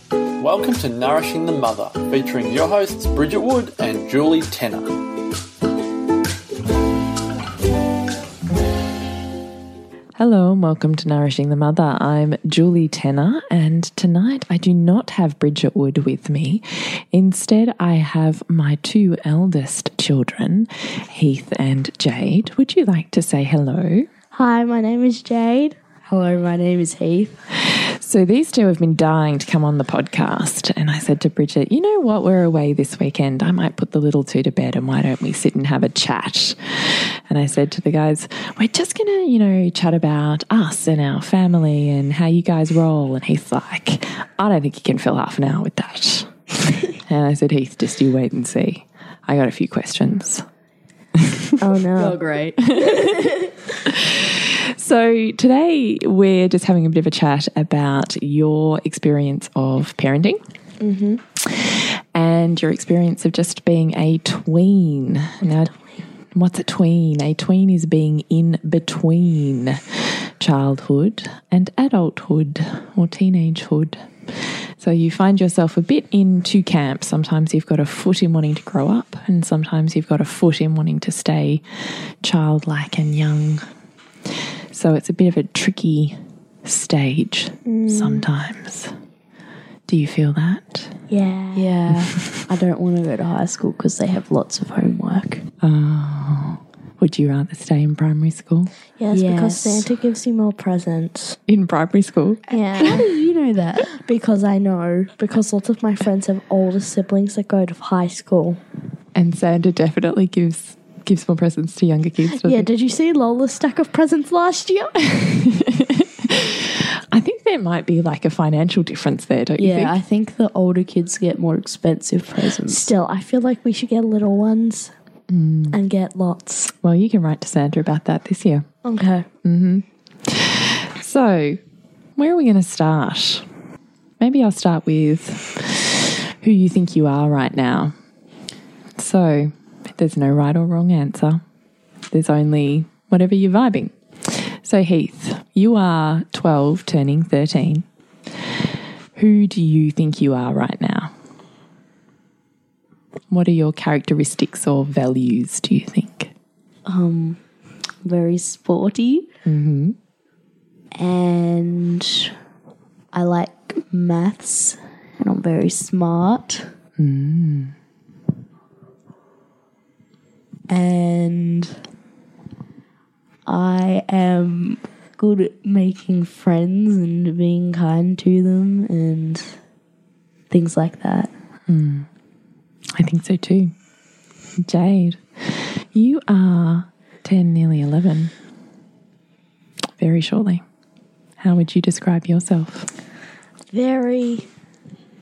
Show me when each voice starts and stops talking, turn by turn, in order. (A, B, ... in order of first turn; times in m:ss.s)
0:00.4-0:05.0 A
0:10.2-0:24.1 B
0:24.3-0:25.8 C
0:26.0-0:27.4 D
0:27.7-0:46.3 B
0:46.9-0:50.4 B
0:51.1-0:51.6 B
0:51.6-0:52.2 C
0:52.0-0:53.5 D
0:52.6-1:00.4 B
1:00.8-1:01.2 C
1:01.4-1:05.7 B
1:05.4-1:05.7 C
1:06.3-1:14.0 B
1:14.8-1:21.6 B
1:22.2-1:23.6 B
1:24.7-1:28.9 B
1:27.6-1:28.3 C
1:29.9-1:30.9 B
1:31.1-1:31.7 C
1:31.5-1:35.4 D
1:31.9-1:32.4 B
1:35.6-1:38.7 B
1:39.0-1:41.4 C
1:39.1-1:39.9 D
1:41.5-1:43.0 B
1:42.5-1:43.1 C
1:42.5-1:43.9 D
1:43.9-1:48.6 C
1:49.1-1:52.7 B
1:52.3-1:55.2 C
1:55.1-2:00.0 B
1:59.6-2:02.9 D
2:02.6-2:04.9 C
2:05.3-2:05.8 B
2:05.7-2:06.7 C
2:06.8-2:08.6 B
2:08.8-2:09.2 C
2:09.4-2:11.6 B
2:12.2-2:13.4 B
2:14.2-2:17.9 B
2:19.0-2:21.4 B
2:22.1-2:27.8 B
2:29.1-2:31.1 B
2:33.3-2:36.3 B
2:36.8-2:37.4 D
2:38.0-2:39.3 D
2:39.4-2:40.0 B
2:41.0-2:42.3 D
2:43.1-2:46.7 D
2:47.0-2:47.7 B
2:50.7-2:51.8 D
2:53.4-2:59.6 D
3:00.5-3:01.3 D
3:01.7-3:02.1 B
3:03.0-3:03.7 B
3:04.6-3:08.3 B
3:10.0-3:10.6 B
3:11.4-3:12.9 B
3:13.7-3:14.4 C